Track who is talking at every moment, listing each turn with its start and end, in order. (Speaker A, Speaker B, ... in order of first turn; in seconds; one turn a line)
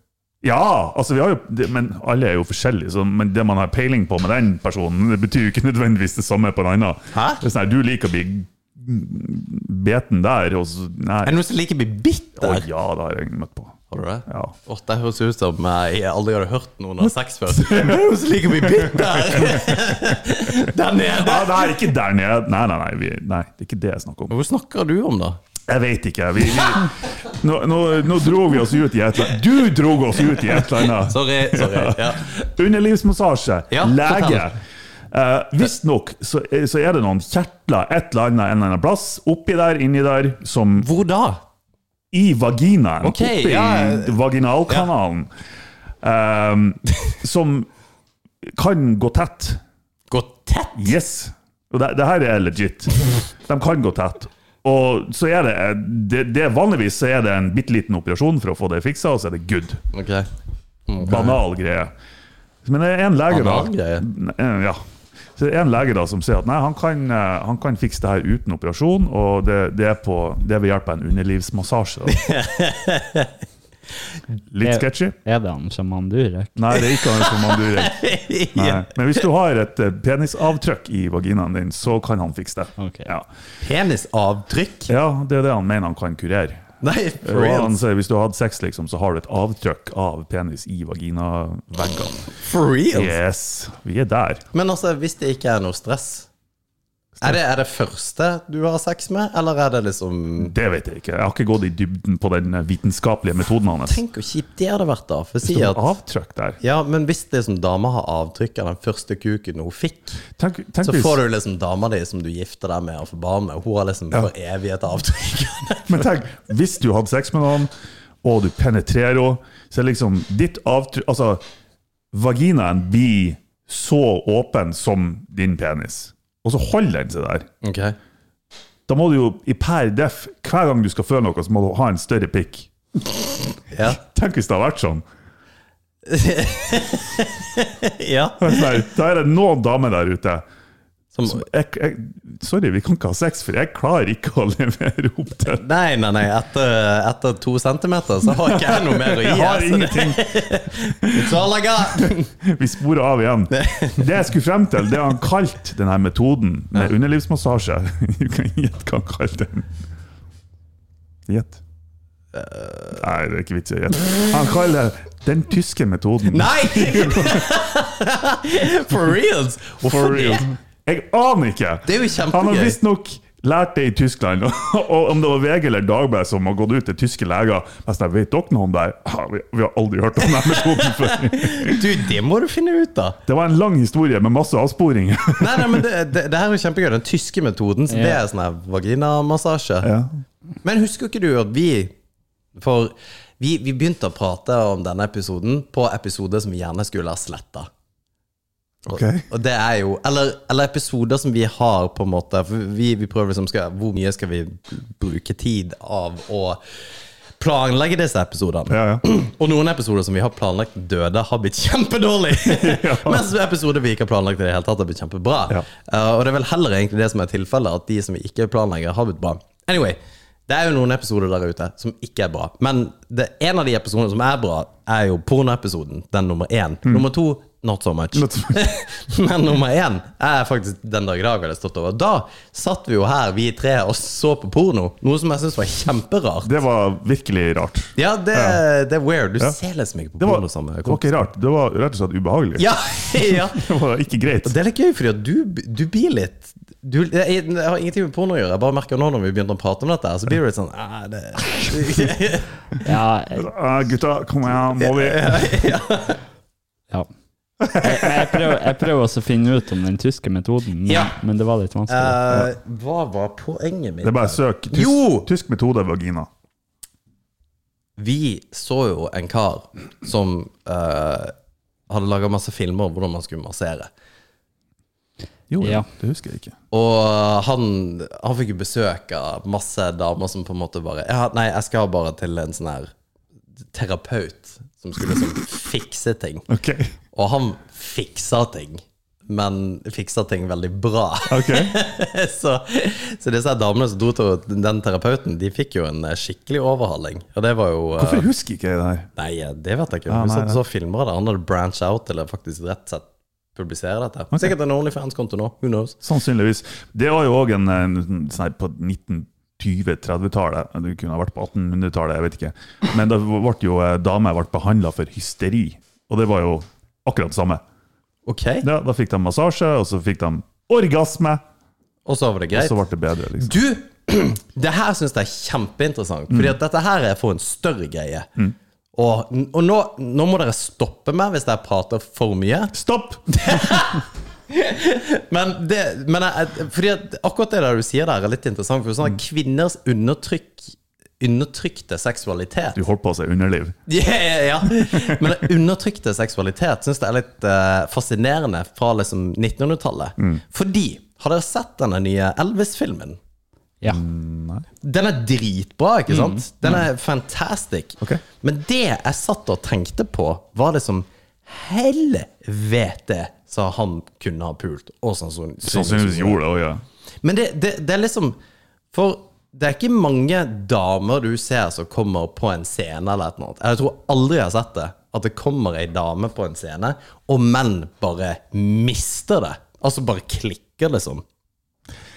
Speaker A: 0.4-11.3
Speaker B: 7.1-7.4
Speaker B: 11.2-12.7
Speaker A: 12.4-14.5
Speaker B: 13.9-21.9
Speaker A: 17.5-18.0
Speaker A: 18.6-20.0
Speaker A: 21.1-24.3
Speaker B: 24.3-25.4
Speaker A: 25.7-34.6
Speaker B: 31.0-32.4
Speaker B: 33.7-34.5
Speaker A: 35.1-40.9
Speaker B: 40.8-41.4
Speaker A: 42.1-45.3
Speaker B: 43.0-44.2
Speaker A: 46.0-47.7
Speaker A: 48.4-49.6
Speaker B: 50.1-50.9
Speaker A: 50.8-59.8
Speaker B: 59.9-60.3
Speaker B: 60.9-61.4
Speaker A: 61.0-61.9
Speaker A: 62.6-64.8
Speaker B: 63.3-64.0
Speaker A: 65.3-72.2
Speaker B: 72.1-73.3
Speaker A: 74.5-75.2
Speaker C: 74.6-76.6
Speaker A: 76.5-78.0
Speaker B: 76.8-79.2
Speaker A: 78.5-83.3
Speaker C: 82.8-83.1
Speaker B: 83.6-84.9
Speaker A: 84.9-86.7
Speaker B: 86.8-87.8
Speaker A: 87.2-92.2
Speaker B: 92.3-93.1
Speaker A: 92.9-94.4
Speaker B: 94.5-96.3
Speaker B: 97.2-100.5
Speaker A: 100.4-104.0
Speaker B: 103.9-106.0
Speaker A: 105.4-106.6
Speaker B: 106.6-110.2
Speaker A: 110.4-111.2
Speaker B: 110.8-116.0
Speaker A: 115.9-117.7
Speaker A: 118.2-121.4
Speaker A: 122.1-127.5
Speaker B: 127.6-128.0
Speaker A: 128.9-132.7
Speaker B: 133.7-134.0
Speaker A: 133.9-135.0
Speaker B: 136.1-138.8
Speaker A: 138.4-140.4
Speaker B: 141.1-141.4
Speaker A: 141.2-145.6
Speaker B: 145.6-152.3
Speaker A: 148.3-151.3
Speaker A: 151.9-159.7
Speaker B: 153.5-154.1
Speaker A: 161.3-161.6
Speaker B: 162.3-163.0
Speaker A: 163.0-167.5
Speaker B: 166.3-170.5
Speaker A: 169.8-181.8
Speaker B: 171.8-172.8
Speaker B: 181.3-183.2
Speaker A: 183.3-185.8
Speaker B: 185.4-189.9
Speaker C: 187.9-188.2
Speaker A: 189.8-190.2
Speaker B: 190.6-191.9
Speaker B: 192.6-197.7
Speaker A: 198.8-199.2
Speaker B: 198.9-206.6
Speaker B: 207.4-236.5
Speaker A: 208.7-209.0
Speaker A: 212.4-213.3
Speaker A: 228.1-228.7
Speaker A: 236.4-238.6
Speaker B: 237.9-241.2
Speaker A: 240.2-244.5
Speaker B: 242.6-243.7
Speaker B: 244.4-252.5
Speaker C: 252.8-253.5
Speaker A: 253.3-255.5
Speaker B: 254.7-256.2
Speaker A: 257.6-258.5
Speaker C: 257.7-262.2
Speaker B: 260.9-261.1
Speaker B: 261.9-265.3
Speaker A: 264.0-266.3
Speaker B: 268.0-271.3
Speaker B: 271.9-273.9
Speaker A: 275.5-276.6
Speaker C: 275.6-275.9
Speaker B: 276.7-282.9
Speaker B: 283.7-286.5
Speaker A: 286.5-286.9
Speaker B: 287.1-298.3
Speaker A: 291.3-291.8
Speaker A: 298.0-299.1
Speaker B: 299.1-306.0
Speaker A: 300.1-300.6
Speaker A: 306.0-317.6
Speaker B: 318.2-318.7
Speaker A: 318.6-321.4
Speaker B: 322.1-322.8
Speaker A: 322.5-323.5
Speaker B: 323.4-328.3
Speaker A: 326.3-326.6
Speaker B: 328.9-332.7
Speaker A: 332.7-333.8
Speaker B: 333.3-342.8
Speaker A: 342.7-343.8
Speaker B: 343.9-353.2
Speaker A: 344.6-345.2
Speaker A: 353.9-354.6
Speaker B: 354.8-366.4
Speaker A: 365.6-366.8
Speaker B: 367.2-368.4
Speaker B: 368.9-381.2